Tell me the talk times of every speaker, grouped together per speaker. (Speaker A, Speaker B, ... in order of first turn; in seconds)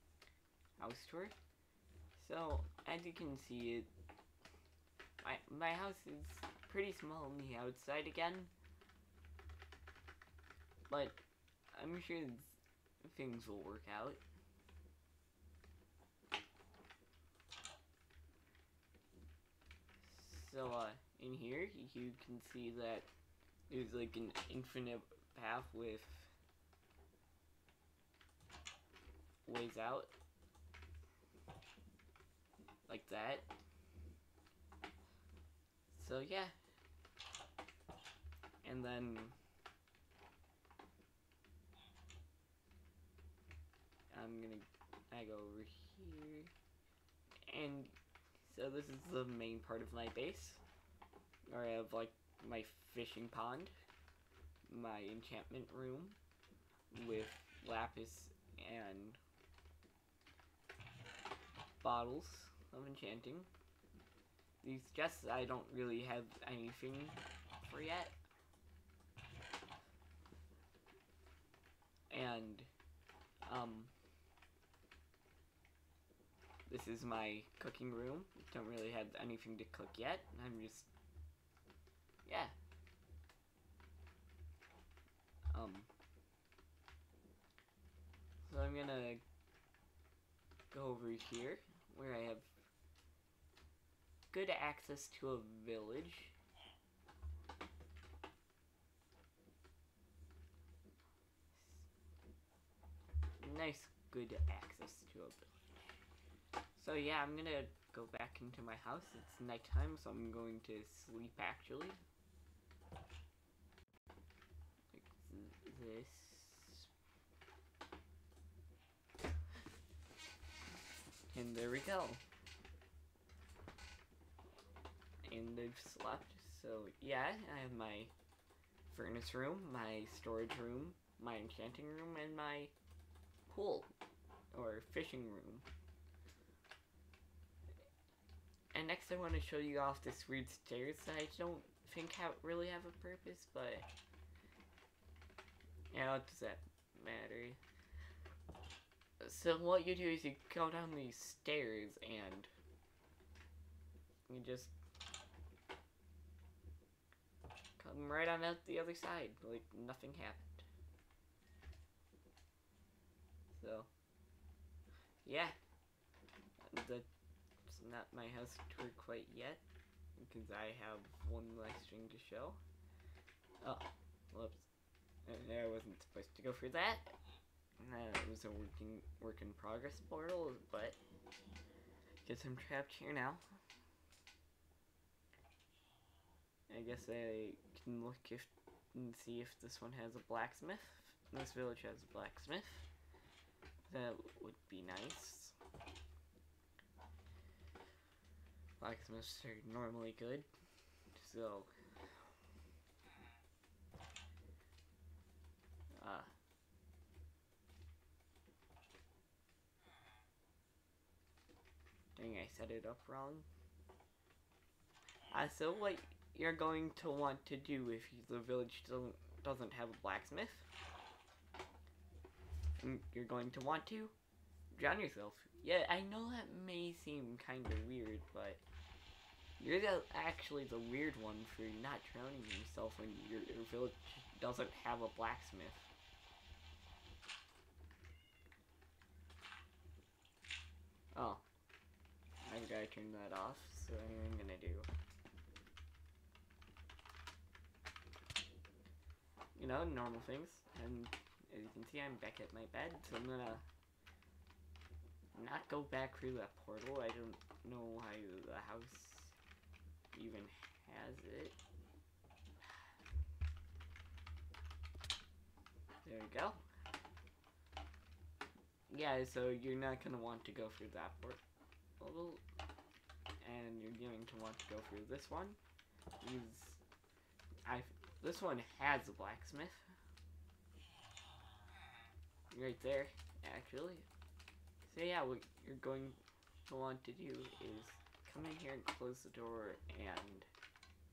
Speaker A: 0.8-1.4, 2.1-3.9, 5.2-8.5, 10.9-11.2, 11.7-14.2, 20.0-23.1, 23.7-26.3, 29.5-30.1, 32.9-33.5, 35.9-36.5, 38.6-39.4, 44.1-46.5, 47.5-50.6, 51.5-53.7, 54.7-56.2, 56.9-59.2, 61.8-63.5, 64.6-68.2, 72.1-72.7, 73.5-73.9, 76.7-80.9, 82.3-82.5, 85.5-85.9, 88.5-89.2, 90.7-92.6, 94.3-96.3, 103.4-105.7, 106.8-112.0, 114.9-116.9, 121.3-122.2, 125.3-128.1, 128.9-132.7, 133.5-133.9, 134.5-135.7, 138.7-143.9, 145.9-147.6, 149.2-152.5, 154.3-154.7, 157.8-160.7, 163.5-163.9, 165.2-165.6, 166.6-167.1, 167.7-169.6, 170.2-172.6, 173.6-174.7, 175.3-177.2, 177.8-181.0, 182.2-183.4, 186.7-192.9, 193.9-195.6, 198.8-200.5, 201.2-201.7, 205.9-206.3, 212.2-213.5, 215.3-220.7, 222.8-224.2, 224.8-228.6, 229.6-235.9, 241.1-241.4, 242.4-244.9, 249.6-253.6, 255.3-259.4, 260.1-261.6, 266.0-266.6, 268.9-271.4, 272.0-272.4, 273.4-275.6, 276.2-276.8, 277.6-279.9, 282.5-284.1, 284.9-290.5